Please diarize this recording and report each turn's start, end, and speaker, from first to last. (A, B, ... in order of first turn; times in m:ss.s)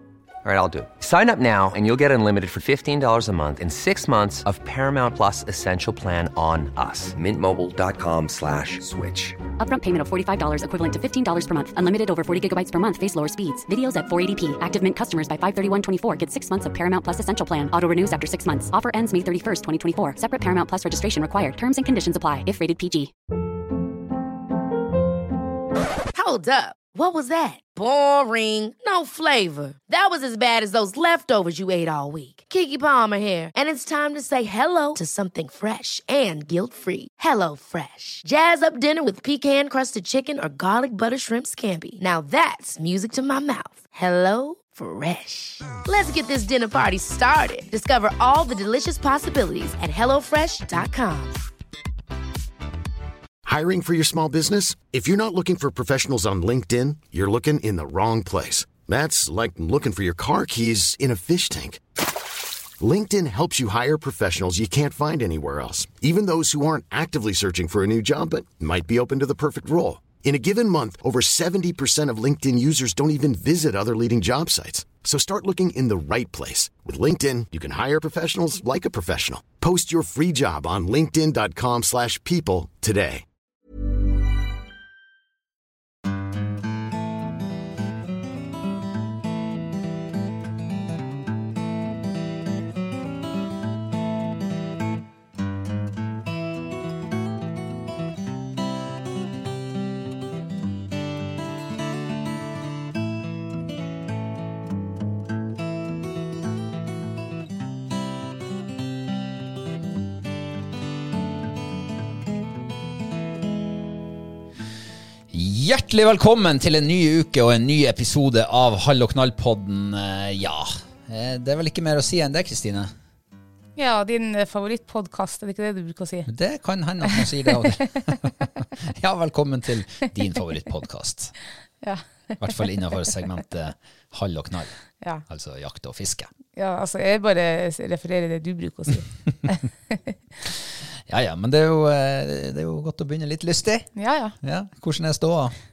0:00.4-0:09.4 A
0:09.6-0:23.1 B
0:26.1-0:51.4 C
0:53.4-1:01.8 D
1:02.8-1:23.2 D
1:55.3-2:02.9 E
2:03.8-2:06.3 F
2:06.3-2:11.3 E
2:07.1-2:07.6 F
2:11.8-2:12.6 F
2:12.4-2:14.8 E
2:15.3-2:16.3 E
2:16.6-2:20.1 F
2:20.5-2:25.6 E
2:24.0-2:24.4 F